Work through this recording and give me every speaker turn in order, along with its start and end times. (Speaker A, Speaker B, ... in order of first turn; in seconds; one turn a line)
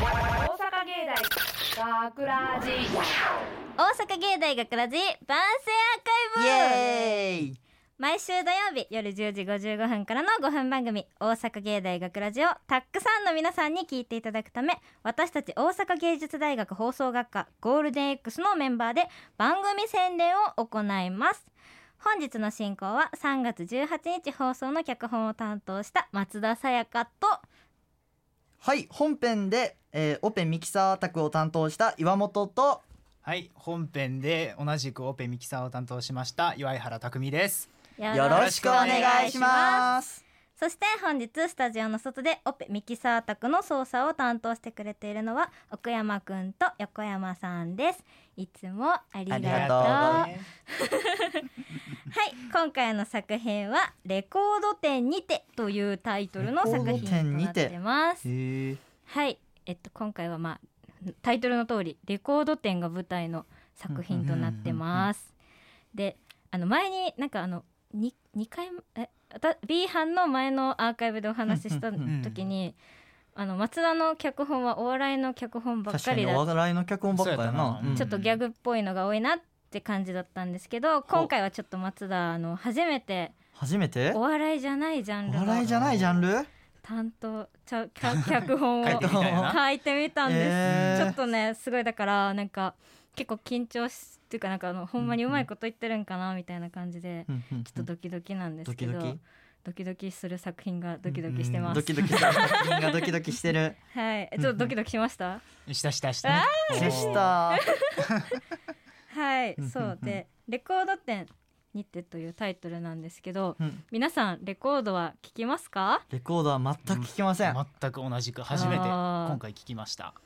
Speaker A: 0.3-3.1
Speaker B: 3.8-7.2
Speaker C: 6.4-7.6
Speaker B: 8.0-27.4
Speaker C: 28.6-32.8
Speaker D: 33.2-39.5
Speaker B: 38.0-39.9
Speaker C: 38.1-40.2
Speaker B: 40.6-58.2
Speaker C: 49.3-50.3
Speaker D: 49.3-50.5
Speaker C: 56.6-58.8
Speaker B: 59.0-65.3
Speaker D: 64.1-64.8
Speaker B: 65.9-72.8
Speaker C: 71.5-72.1
Speaker D: 72.0-72.5
Speaker B: 73.3-76.5
Speaker C: 75.9-78.1
Speaker D: 77.1-78.4
Speaker B: 77.9-83.4
Speaker C: 83.5-84.2
Speaker B: 84.1-85.7
Speaker C: 85.2-86.5
Speaker D: 85.6-86.2
Speaker B: 86.8-103.0
Speaker D: 88.1-89.6
Speaker C: 88.8-89.6
Speaker C: 90.2-91.2
Speaker D: 90.6-91.1
Speaker C: 95.0-95.4
Speaker C: 97.3-97.9
Speaker C: 98.7-99.2
Speaker D: 101.2-102.5
Speaker C: 101.7-103.8
Speaker B: 103.9-105.4
Speaker D: 104.4-104.7
Speaker D: 105.7-107.3
Speaker B: 106.2-108.4
Speaker C: 106.7-107.6
Speaker D: 108.0-108.2
Speaker B: 109.1-116.0
Speaker C: 109.6-110.2
Speaker C: 116.1-117.6
Speaker D: 116.8-120.2
Speaker B: 118.5-119.4
Speaker C: 118.5-118.9